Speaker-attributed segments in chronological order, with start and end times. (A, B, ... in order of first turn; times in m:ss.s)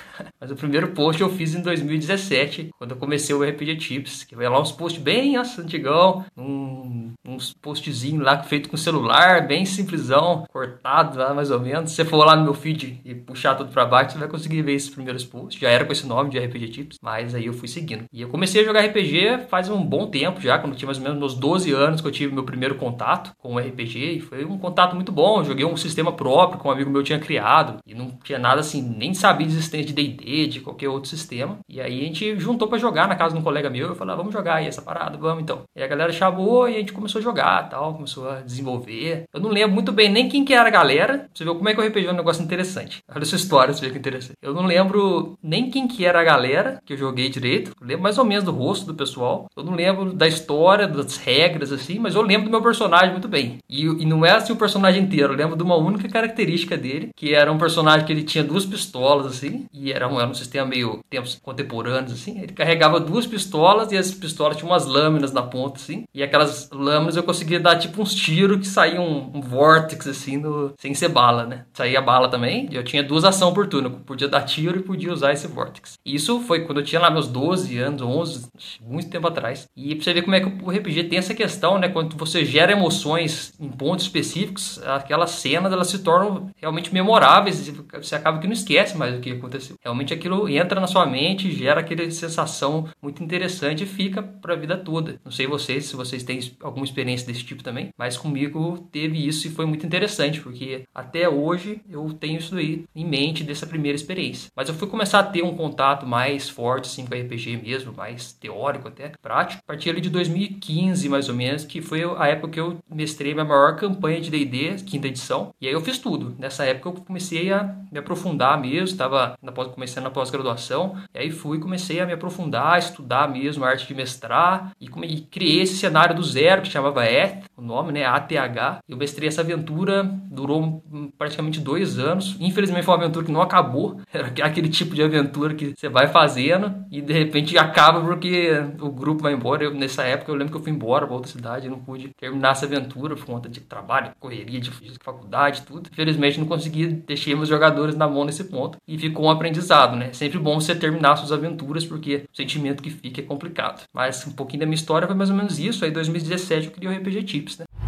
0:00.4-2:37.7 A